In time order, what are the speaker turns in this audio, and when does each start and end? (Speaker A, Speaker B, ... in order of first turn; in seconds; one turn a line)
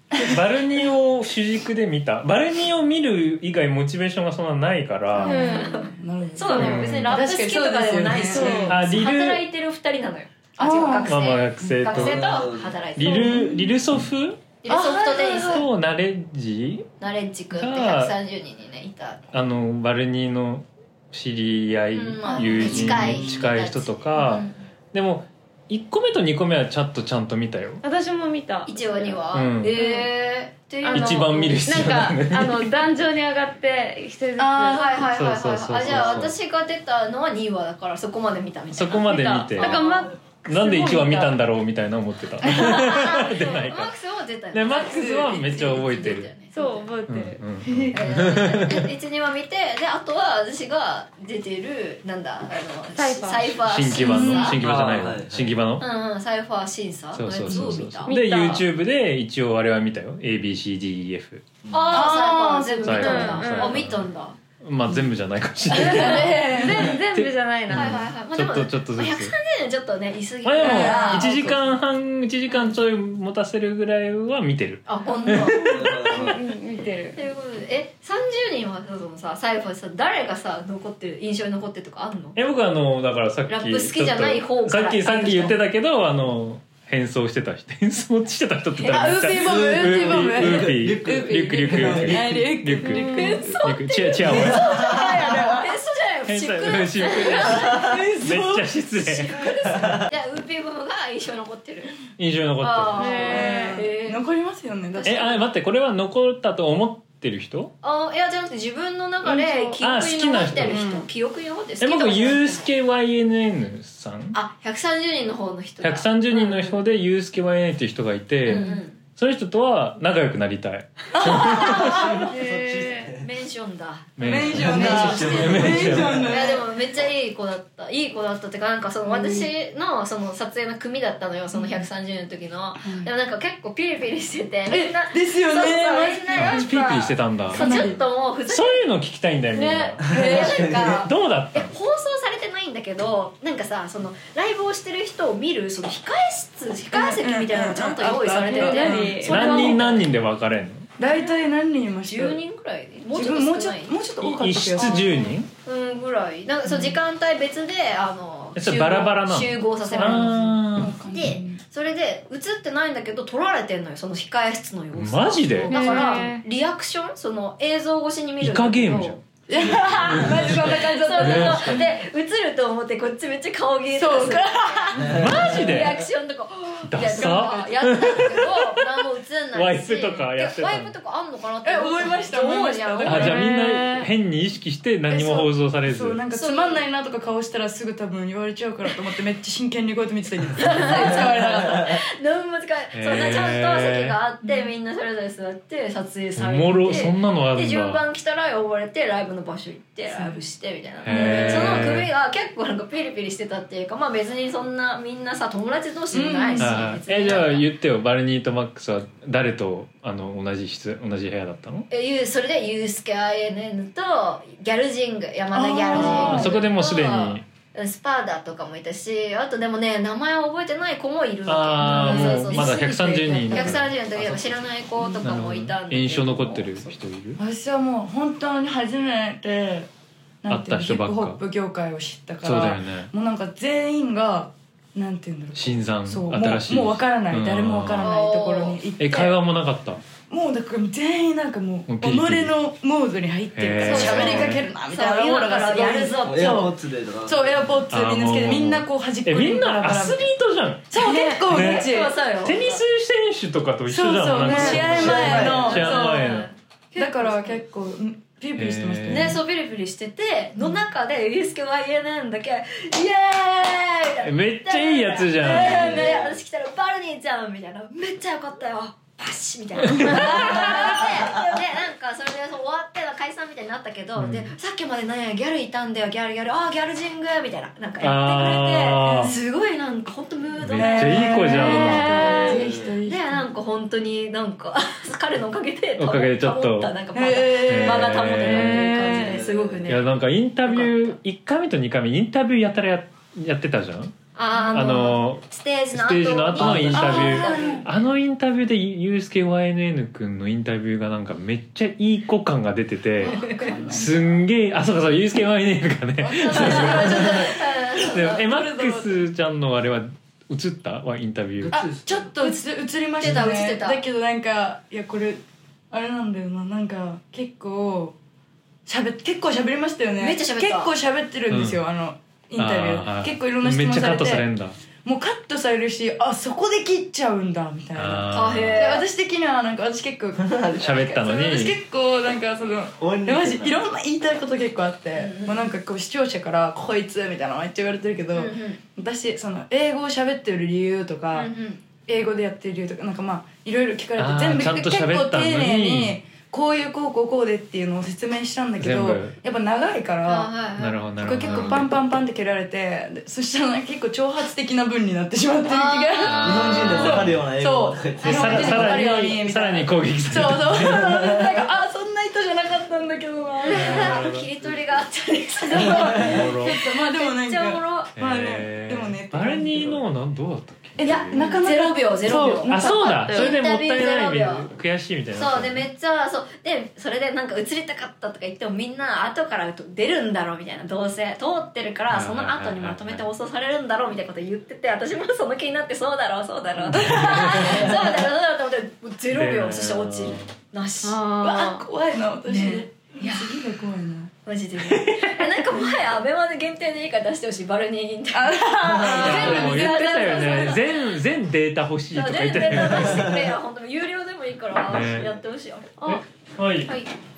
Speaker A: 0.1-5.4
Speaker B: 5.2-8.9
Speaker C: 5.2-5.8
Speaker D: 5.3-13.6
Speaker A: 6.5-7.1
Speaker C: 8.3-8.7
Speaker A: 8.7-9.4
Speaker B: 10.6-11.1
Speaker A: 11.1-12.4
Speaker E: 11.9-12.8
Speaker A: 13.0-14.4
Speaker D: 14.6-15.7
Speaker B: 14.7-15.6
Speaker A: 15.4-16.9
Speaker D: 17.0-19.2
Speaker A: 17.5-18.1
Speaker A: 19.3-27.8
Speaker D: 21.9-24.6
Speaker C: 27.8-30.1
Speaker D: 28.7-31.7
Speaker A: 29.3-29.7
Speaker C: 30.8-35.0
Speaker A: 30.9-32.7
Speaker D: 34.4-40.1
Speaker B: 34.4-34.7
Speaker A: 35.1-36.4
Speaker C: 36.0-36.3
Speaker A: 38.7-39.8
Speaker C: 39.0-41.4
Speaker A: 40.5-43.9
Speaker C: 42.4-43.6
Speaker D: 42.4-46.9
Speaker A: 44.5-46.4
Speaker C: 46.5-48.0
Speaker A: 47.1-48.9
Speaker D: 47.9-54.6
Speaker C: 53.0-54.5
Speaker A: 53.6-55.9
Speaker B: 54.1-54.5
Speaker E: 54.6-55.6
Speaker D: 55.8-58.1
Speaker A: 57.1-61.4
Speaker C: 57.5-58.6
Speaker E: 61.7-62.0
Speaker D: 61.7-64.4
Speaker B: 61.9-62.8
Speaker C: 62.0-63.8
Speaker A: 62.8-64.0
Speaker A: 64.6-69.3
Speaker C: 65.7-68.0
Speaker D: 65.7-67.0
Speaker B: 66.2-66.7
Speaker D: 67.7-71.6
Speaker A: 70.4-75.9
Speaker B: 70.6-71.5
Speaker D: 74.9-75.9
Speaker C: 75.3-77.2
Speaker E: 75.7-76.5
Speaker D: 77.1-82.4
Speaker A: 82.4-94.8
Speaker D: 83.5-85.6
Speaker D: 88.8-89.1
Speaker B: 88.9-93.6
Speaker E: 89.4-92.5
Speaker C: 92.8-93.4
Speaker D: 93.1-98.0
Speaker E: 94.2-95.3
Speaker A: 96.3-99.3
Speaker B: 97.7-98.7
Speaker D: 99.0-102.0
Speaker E: 99.7-100.0
Speaker A: 102.2-103.3
Speaker D: 102.6-104.2
Speaker C: 103.0-103.8
Speaker B: 103.0-105.4
Speaker D: 105.0-105.4
Speaker A: 105.0-107.7
Speaker D: 107.8-112.7
Speaker C: 109.3-109.8
Speaker A: 109.8-110.9
Speaker B: 110.7-111.1
Speaker A: 111.8-114.4
Speaker D: 114.3-116.8
Speaker A: 115.8-122.1
Speaker D: 118.5-119.0
Speaker B: 121.2-122.2
Speaker D: 121.2-122.2
Speaker E: 121.8-123.2
Speaker C: 122.2-123.1
Speaker D: 123.1-138.9
Speaker A: 124.2-126.3
Speaker B: 124.2-126.6
Speaker E: 124.4-126.3
Speaker B: 129.1-129.5
Speaker B: 132.8-133.1
Speaker B: 134.7-136.7
Speaker A: 136.3-137.9
Speaker B: 137.5-138.0
Speaker A: 138.5-141.7
Speaker D: 139.5-150.0
Speaker E: 140.0-141.0
Speaker B: 140.1-140.7
Speaker B: 146.9-149.8
Speaker C: 148.4-150.0
Speaker A: 149.2-150.9
Speaker B: 151.0-152.4
Speaker D: 152.1-154.0
Speaker B: 153.1-155.3
Speaker A: 154.2-155.5
Speaker D: 154.8-155.1
Speaker D: 155.6-160.6
Speaker B: 156.7-156.9
Speaker A: 158.6-161.0
Speaker B: 158.7-159.1
Speaker B: 159.8-161.6
Speaker D: 161.1-183.5
Speaker A: 165.0-165.7
Speaker B: 165.7-166.0
Speaker C: 165.7-166.4
Speaker A: 168.4-169.2
Speaker B: 169.5-171.8
Speaker A: 170.1-171.9
Speaker B: 173.9-175.3
Speaker E: 175.0-175.8
Speaker A: 175.0-176.0
Speaker A: 176.9-178.6
Speaker B: 177.1-178.1
Speaker A: 179.5-180.9
Speaker B: 181.7-183.5
Speaker A: 183.1-186.2
Speaker C: 183.1-184.1
Speaker B: 185.1-191.9
Speaker D: 186.3-186.8
Speaker D: 190.6-207.7
Speaker A: 192.9-194.2
Speaker A: 196.4-198.0
Speaker B: 200.1-200.4
Speaker A: 201.1-202.1
Speaker B: 201.1-201.7
Speaker B: 206.1-206.8
Speaker A: 206.6-211.9
Speaker D: 211.9-226.9
Speaker B: 215.5-216.6
Speaker A: 216.0-217.4
Speaker A: 221.5-227.4
Speaker B: 221.8-222.8
Speaker B: 223.5-223.8
Speaker B: 227.4-229.9
Speaker B: 230.4-239.3
Speaker A: 230.5-231.4
Speaker A: 232.4-233.1
Speaker A: 235.6-238.1
Speaker D: 238.0-238.8
Speaker A: 239.0-240.0
Speaker B: 240.3-246.7
Speaker A: 241.9-242.6
Speaker A: 243.6-244.6
Speaker D: 243.8-246.7
Speaker E: 246.3-247.7
Speaker B: 247.3-250.2
Speaker A: 247.9-250.9
Speaker B: 250.9-252.1
Speaker C: 251.0-251.4
Speaker D: 251.4-252.8
Speaker A: 251.5-256.5
Speaker B: 253.9-256.3
Speaker D: 254.4-257.6
Speaker B: 257.0-259.4
Speaker A: 258.6-259.4
Speaker D: 259.1-290.1
Speaker A: 264.2-266.1
Speaker E: 265.6-266.4
Speaker A: 274.2-274.5
Speaker A: 278.0-279.4
Speaker A: 280.6-282.1
Speaker B: 280.7-283.5
Speaker C: 281.6-282.6
Speaker E: 282.5-283.0
Speaker A: 286.0-286.9
Speaker B: 287.1-288.4
Speaker A: 287.5-289.0
Speaker C: 288.4-289.4
Speaker E: 289.1-290.0
Speaker A: 289.9-311.8
Speaker D: 290.7-290.9
Speaker D: 294.4-297.9
Speaker B: 296.6-297.9
Speaker B: 303.2-304.4
Speaker D: 303.2-303.8
Speaker B: 306.2-309.1
Speaker D: 306.5-308.4
Speaker E: 311.6-312.4
Speaker B: 311.7-318.1
Speaker D: 313.2-314.0
Speaker B: 318.9-324.4
Speaker D: 320.2-320.9
Speaker A: 321.5-321.8
Speaker A: 322.6-324.8
Speaker B: 325.0-341.5
Speaker A: 328.0-328.8
Speaker D: 328.3-329.1
Speaker E: 330.4-331.2
Speaker A: 330.8-331.8
Speaker E: 333.0-333.9
Speaker D: 335.2-335.7
Speaker D: 338.3-338.8
Speaker D: 341.3-341.8
Speaker B: 342.1-350.5
Speaker A: 344.2-346.2
Speaker A: 348.8-349.4
Speaker D: 350.2-351.8
Speaker A: 350.8-351.9
Speaker B: 351.2-364.2
Speaker D: 355.7-357.2
Speaker A: 356.2-357.3
Speaker E: 356.4-359.1
Speaker A: 358.2-361.1
Speaker D: 358.5-358.9
Speaker E: 361.0-361.6
Speaker D: 363.7-368.1
Speaker A: 363.7-364.5
Speaker B: 365.7-370.0
Speaker E: 365.7-366.5
Speaker A: 365.9-366.8
Speaker A: 368.2-371.4
Speaker B: 371.0-373.4
Speaker D: 371.0-374.7
Speaker A: 372.7-375.9
Speaker C: 373.0-373.6
Speaker D: 375.4-391.8
Speaker A: 382.1-383.2
Speaker A: 386.9-388.0
Speaker B: 387.0-387.9
Speaker A: 389.3-390.5
Speaker C: 391.1-391.6
Speaker B: 391.4-394.3
Speaker D: 392.5-393.6
Speaker D: 394.4-401.1
Speaker A: 394.9-395.5
Speaker B: 398.3-400.0
Speaker A: 399.0-403.3
Speaker D: 402.1-406.0
Speaker A: 404.9-405.3
Speaker A: 406.0-406.9
Speaker D: 406.9-407.1